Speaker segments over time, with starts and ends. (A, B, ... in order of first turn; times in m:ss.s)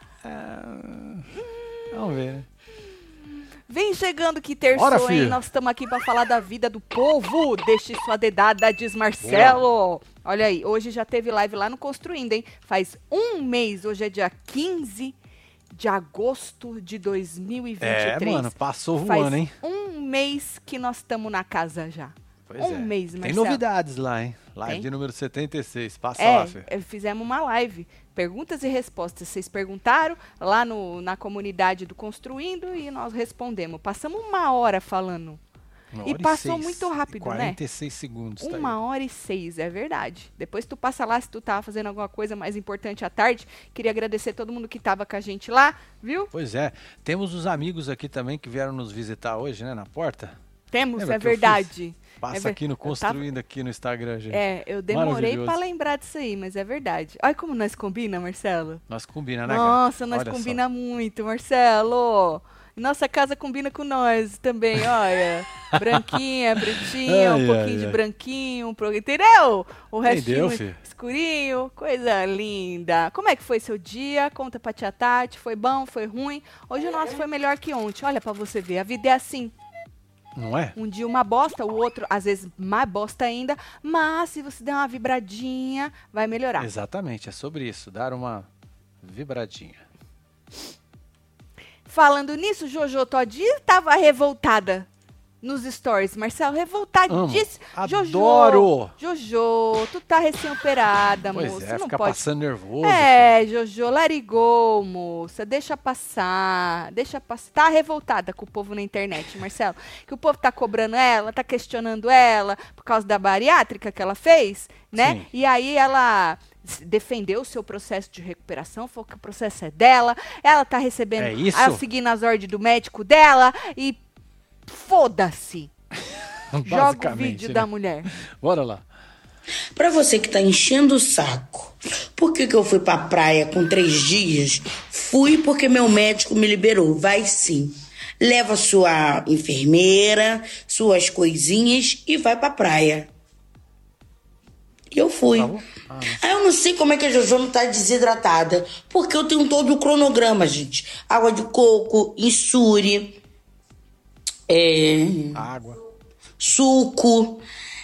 0:00.2-0:01.3 A
0:01.4-0:02.0 B
0:01.9-0:02.5 A
0:03.7-0:15.1 B
0:04.7-0:05.4 A
0:09.2-0:09.6 A
0:15.7-0:23.6 B
0:17.8-0:19.5 A
0:22.5-0:26.6 A
0:26.2-0:35.4 B
0:35.9-0:38.8 A
0:36.0-0:37.6 B
0:38.4-0:46.3 B
0:46.3-0:50.4 A
0:50.7-0:53.2 B
0:51.0-0:55.6 A
0:54.3-0:58.8 B
0:58.9-1:00.6 A
0:59.4-1:19.5 B
1:05.7-1:08.0 A
1:10.0-1:10.8 A
1:20.4-1:20.7 A
1:20.7-1:26.7 B
1:26.6-1:28.5 A
1:29.0-1:29.8 A
1:31.9-1:34.9 B
1:35.4-1:42.2 B
1:37.1-1:38.9 A
1:41.3-1:43.3 A
1:42.8-2:04.0 B
1:54.9-1:55.2 A
2:01.2-2:01.8 A
2:04.7-2:05.7 B
2:06.5-2:08.8 A
2:06.6-2:08.1 B
2:09.7-2:23.1 C
2:24.9-2:25.6 C
2:25.3-2:26.2 A
2:26.1-2:33.2 C
2:34.5-2:35.4 C
2:35.3-2:35.8 A
2:36.4-2:37.4 C